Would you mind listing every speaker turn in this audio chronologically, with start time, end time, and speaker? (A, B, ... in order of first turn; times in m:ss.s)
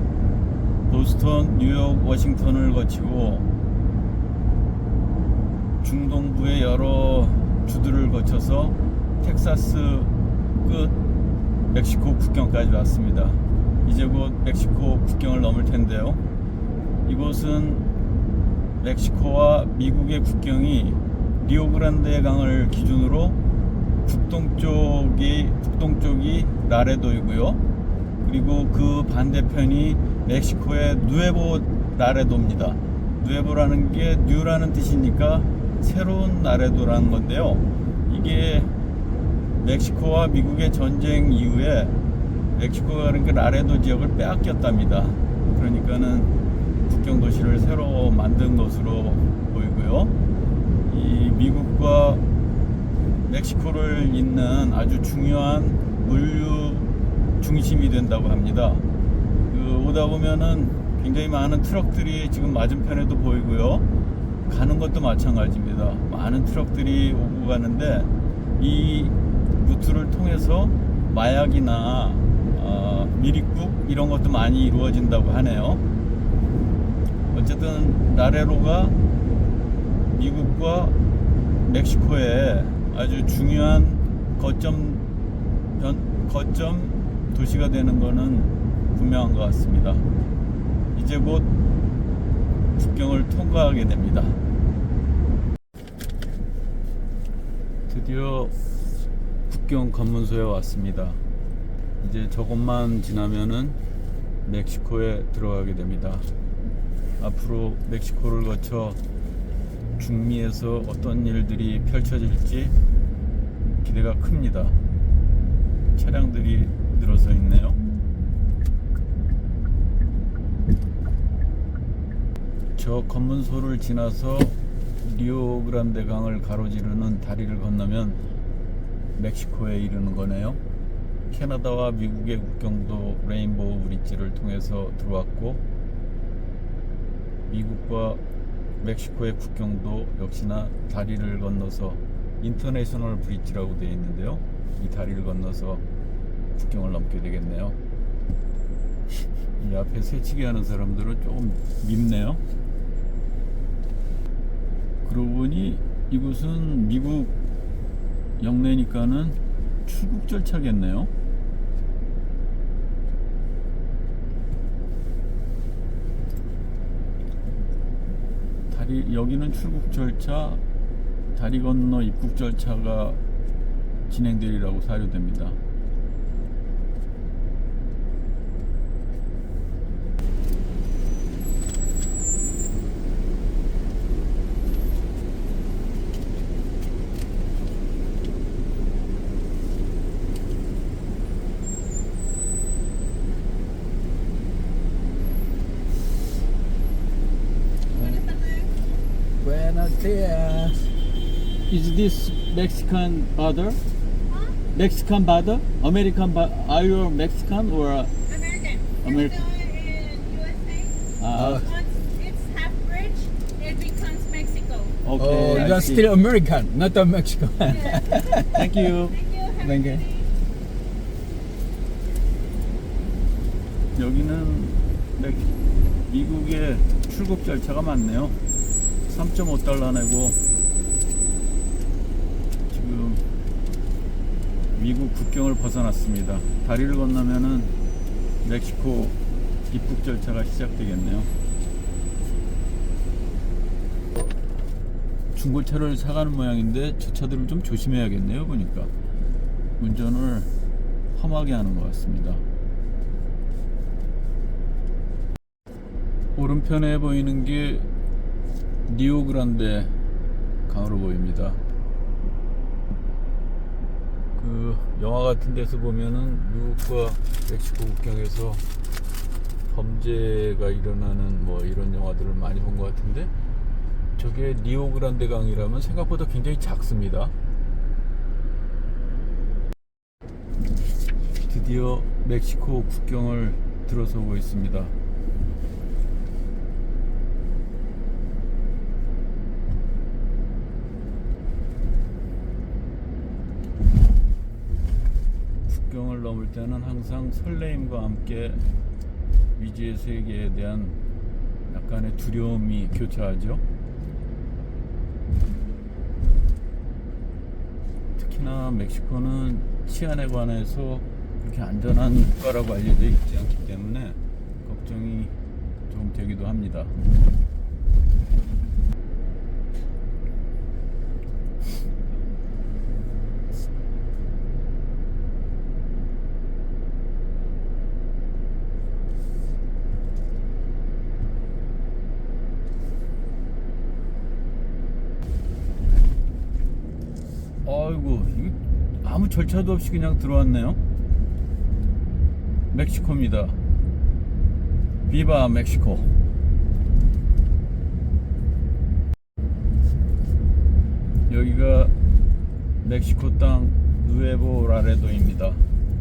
0:00.9-0:03.5 A
0:05.8-0:11.0 A
0:11.7-0:16.2 A
0:17.0-0:17.9 A
0:18.8-0:23.4 A
0:24.0-0:27.6 A
0:28.2-0:38.7 A
0:39.6-0:42.0 A
0:42.5-0:46.3 A
0:46.8-0:50.1 A
0:50.8-0:52.2 A
0:53.2-0:58.8 A
0:59.5-1:03.8 A
1:04.5-1:15.8 A
1:17.3-1:19.0 A
1:20.1-1:21.0 A
1:21.6-1:25.1 A
1:25.7-1:30.0 A
1:30.9-1:31.5 A
1:32.8-1:34.4 A
1:37.9-1:38.5 A
1:39.5-1:41.2 A
1:42.0-1:43.8 A
1:44.4-1:46.3 A
1:47.2-1:49.0 A
1:50.0-1:52.7 A
1:53.8-1:54.8 A
1:55.9-1:57.8 A
2:02.8-2:08.2 A
2:09.2-2:10.6 A
2:11.3-2:15.6 A
2:17.4-2:18.2 A
2:18.8-2:25.8 A
2:26.5-2:27.8 A
2:29.6-2:32.4 A
2:35.0-2:37.3 A
2:38.4-2:41.1 A
2:48.7-2:50.6 A
2:51.3-2:53.2 A
2:54.1-2:55.6 A
3:17.9-3:18.7 B
3:17.9-3:18.2 C
3:19.4-3:20.9 C
3:21.7-3:23.8 A
3:24.3-3:24.6 B
3:24.7-3:28.1 A
3:28.3-3:35.9 B
3:29.0-3:29.5 A
3:31.2-3:31.6 A
3:31.3-3:31.7 C
3:35.0-3:36.1 A
3:35.2-3:38.7 C
3:37.6-3:40.3 B
3:38.5-3:39.2 A
3:39.6-3:40.0 C
3:43.9-3:45.5 A
3:46.1-3:48.4 A
3:49.0-3:50.4 A
3:52.7-3:53.2 A
3:54.7-3:57.7 A
3:58.4-3:59.2 A
3:59.7-4:01.3 A
4:05.3-4:08.9 A
4:09.8-4:10.5 A
4:11.1-4:12.4 A
4:16.4-4:17.9 A
4:18.9-4:19.9 A
4:20.7-4:21.6 A
4:24.4-4:28.6 A
4:29.7-4:33.3 A
4:34.2-4:37.3 A
4:41.4-4:44.9 A
4:55.7-4:58.6 A
4:59.6-5:01.0 A
5:01.7-5:03.6 A
5:08.2-5:15.3 A
5:15.9-5:17.0 A
5:37.6-5:40.8 A
5:42.7-5:43.6 A
5:45.1-5:46.1 A
5:51.3-5:51.9 A
5:52.8-5:55.6 A